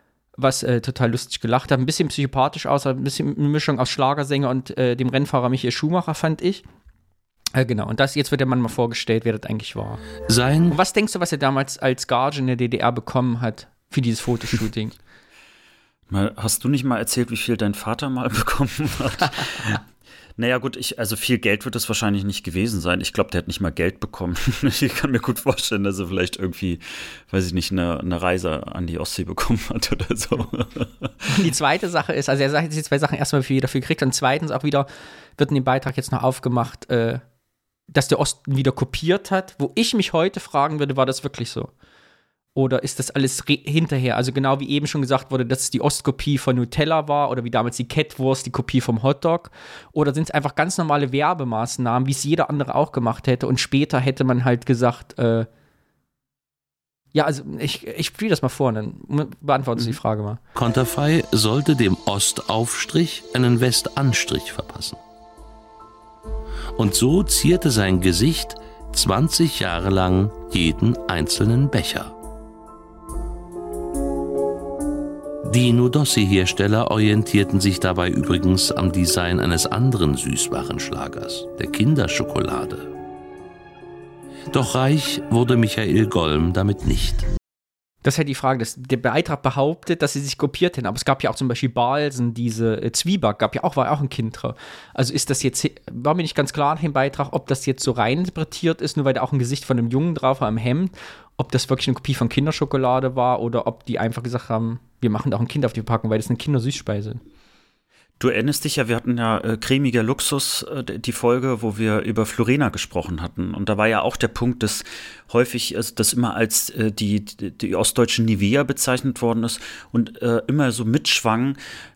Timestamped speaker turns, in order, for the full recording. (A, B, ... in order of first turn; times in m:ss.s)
0:00.4-0:06.6 A
0:07.6-0:10.1 A
0:10.3-0:10.8 B
0:10.7-0:15.0 A
0:16.1-0:19.8 C
0:20.4-0:31.1 C
0:31.3-0:37.2 A
0:37.9-0:41.7 A
0:42.6-0:55.5 A
0:57.1-1:00.4 A
1:00.6-1:05.0 B
1:06.8-1:12.2 B
1:15.4-1:22.9 B
1:24.5-1:27.3 B
1:28.0-1:47.2 A
1:48.2-2:01.6 C